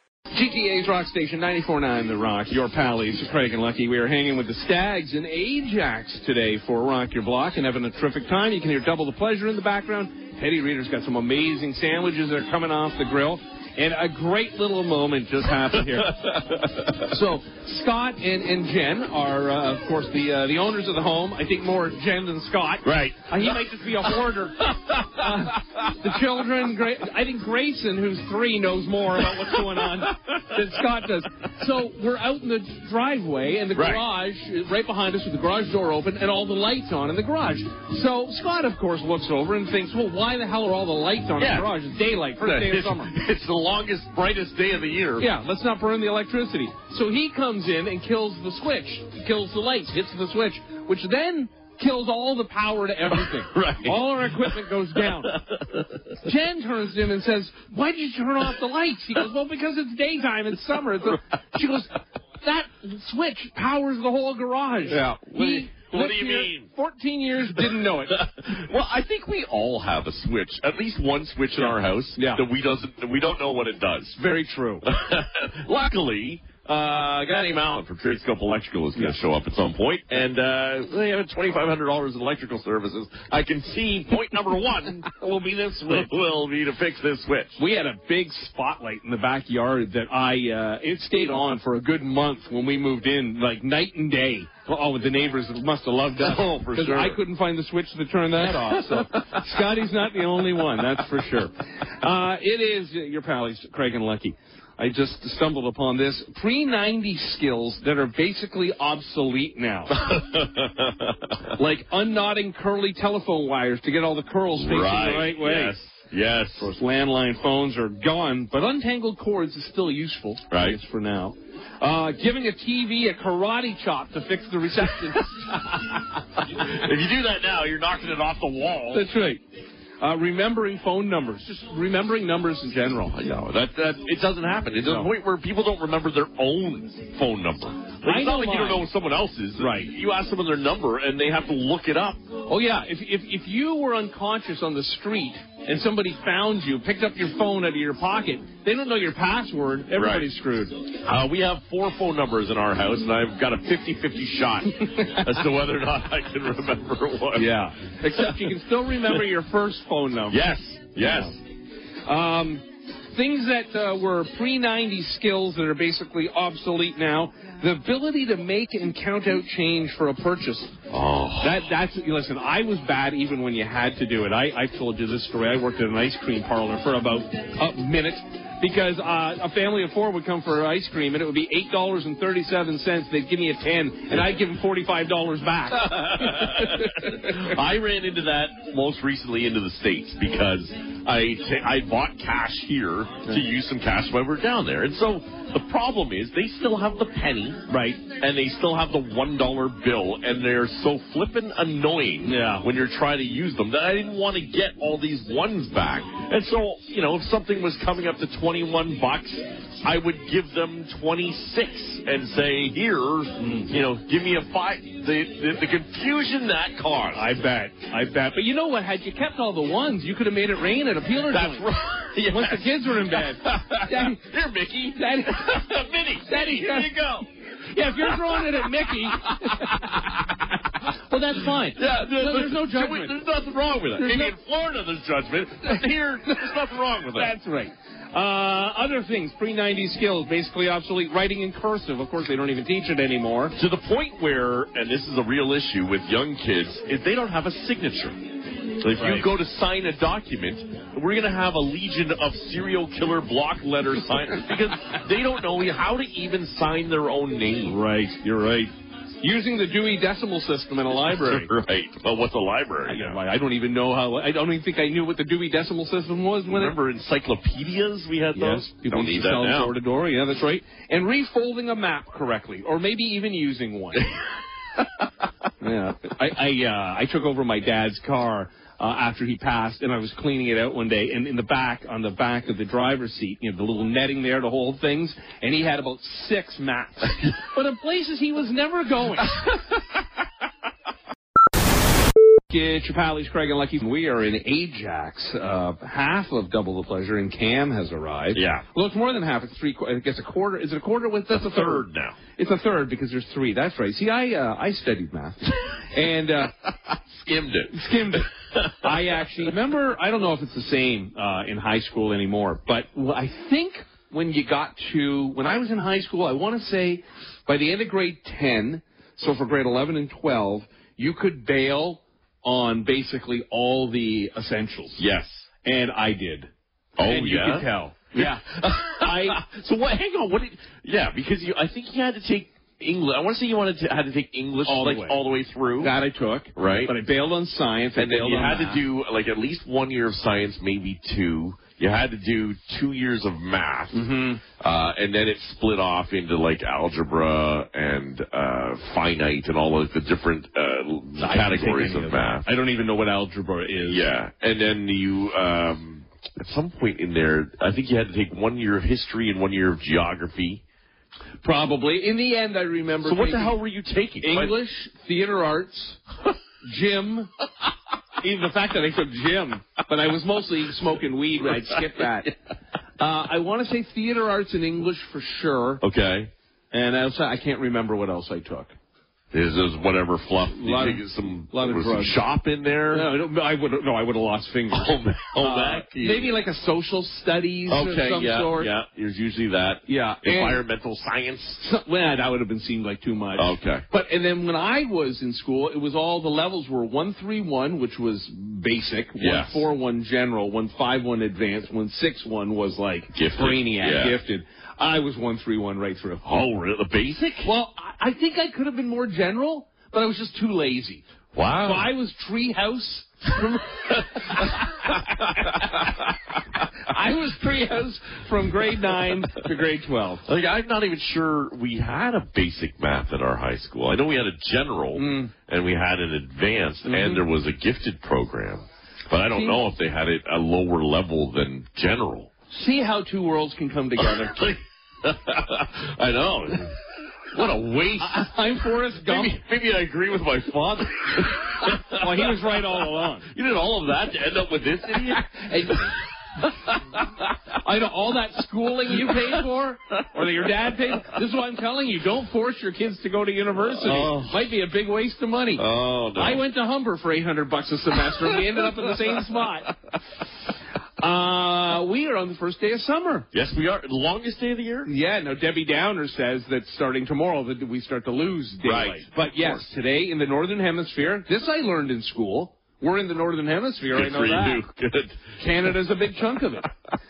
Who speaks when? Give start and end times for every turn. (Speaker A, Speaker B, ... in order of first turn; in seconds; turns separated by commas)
Speaker A: 0.3-16.2, Speaker B: 15.9-17.1, Speaker A: 17.1-43.1, Speaker B: 22.8-23.5, Speaker B: 24.6-25.2, Speaker B: 33.8-34.0, Speaker B: 41.4-41.7, Speaker B: 42.4-45.3, Speaker A: 45.2-55.4, Speaker B: 53.1-55.9, Speaker A: 56.2-68.3, Speaker B: 64.9-66.7, Speaker B: 68.1-74.2, Speaker A: 71.5-72.4, Speaker A: 74.2-74.9, Speaker B: 74.8-85.1, Speaker A: 85.0-86.1, Speaker B: 85.8-87.6, Speaker A: 87.6-109.9, Speaker B: 96.2-97.2, Speaker B: 109.9-111.3, Speaker A: 111.5-115.8, Speaker B: 114.5-116.7, Speaker A: 116.6-125.8, Speaker B: 120.5-120.8, Speaker B: 126.5-129.1, Speaker A: 128.9-129.4, Speaker A: 130.0-133.1, Speaker B: 133.1-142.2, Speaker A: 134.8-135.1, Speaker A: 138.0-138.8, Speaker A: 139.6-139.9, Speaker A: 142.5-150.8, Speaker B: 149.9-150.3, Speaker B: 151.0-157.5, Speaker A: 155.0-155.3, Speaker A: 157.3-160.4, Speaker B: 160.3-161.4, Speaker A: 161.0-161.3, Speaker A: 162.0-170.8, Speaker B: 170.9-171.6, Speaker A: 171.4-187.5, Speaker B: 185.8-197.6, Speaker A: 197.7-198.0, Speaker B: 198.2-217.3, Speaker A: 202.2-202.7, Speaker A: 213.4-213.7, Speaker A: 217.1-221.7, Speaker B: 221.3-227.3, Speaker A: 222.3-224.2, Speaker A: 224.9-225.6, Speaker A: 226.2-226.9, Speaker A: 227.7-229.9, Speaker B: 228.0-230.4, Speaker A: 230.8-233.2, Speaker B: 231.7-237.3, Speaker A: 234.0-234.3, Speaker A: 237.1-243.6, Speaker B: 243.6-248.2, Speaker B: 248.8-257.8, Speaker A: 249.0-249.3, Speaker A: 257.7-261.5, Speaker B: 261.0-263.2, Speaker A: 262.9-266.7, Speaker B: 266.5-269.7, Speaker A: 268.3-274.1, Speaker A: 275.6-289.4, Speaker A: 292.5-301.8, Speaker B: 298.3-298.6, Speaker B: 301.3-302.2, Speaker A: 302.4-306.5, Speaker B: 307.1-308.8, Speaker A: 307.7-325.0, Speaker B: 325.0-325.5, Speaker A: 325.6-326.5, Speaker B: 327.0-335.9, Speaker A: 327.0-329.4, Speaker A: 334.7-335.2, Speaker A: 335.8-338.8, Speaker B: 336.5-336.9, Speaker B: 337.9-352.5, Speaker A: 343.9-344.4, Speaker A: 351.2-354.1, Speaker B: 353.9-360.6, Speaker A: 361.4-363.6, Speaker B: 363.0-364.5, Speaker A: 364.2-366.0, Speaker A: 366.6-367.3, Speaker A: 368.2-372.3, Speaker A: 373.0-375.8, Speaker B: 375.8-376.3, Speaker A: 376.7-378.7, Speaker B: 379.3-383.1, Speaker A: 380.5-382.2, Speaker A: 382.9-388.7, Speaker B: 384.7-386.3, Speaker B: 387.7-391.6, Speaker A: 389.9-390.6, Speaker A: 391.6-406.2, Speaker B: 393.4-393.8, Speaker B: 399.2-399.6, Speaker B: 403.1-404.2, Speaker B: 406.2-407.5, Speaker A: 407.4-411.0, Speaker B: 411.3-411.9, Speaker A: 411.6-414.6, Speaker B: 414.3-415.7, Speaker A: 415.3-415.9, Speaker A: 416.8-420.2, Speaker B: 420.2-432.3, Speaker A: 424.9-425.3, Speaker A: 426.8-427.2, Speaker A: 429.3-429.6, Speaker A: 432.5-434.4, Speaker B: 434.0-436.7, Speaker B: 437.3-438.3, Speaker A: 438.0-439.4, Speaker B: 439.0-442.4, Speaker A: 441.9-443.3, Speaker B: 443.3-445.8, Speaker A: 444.9-446.0, Speaker B: 446.4-447.2, Speaker A: 447.6-455.6, Speaker B: 453.8-454.4, Speaker B: 455.6-456.4, Speaker A: 456.1-459.7, Speaker A: 461.0-463.2, Speaker B: 463.3-464.9, Speaker A: 464.8-474.6, Speaker B: 468.6-469.6, Speaker B: 473.9-475.7, Speaker A: 475.4-476.7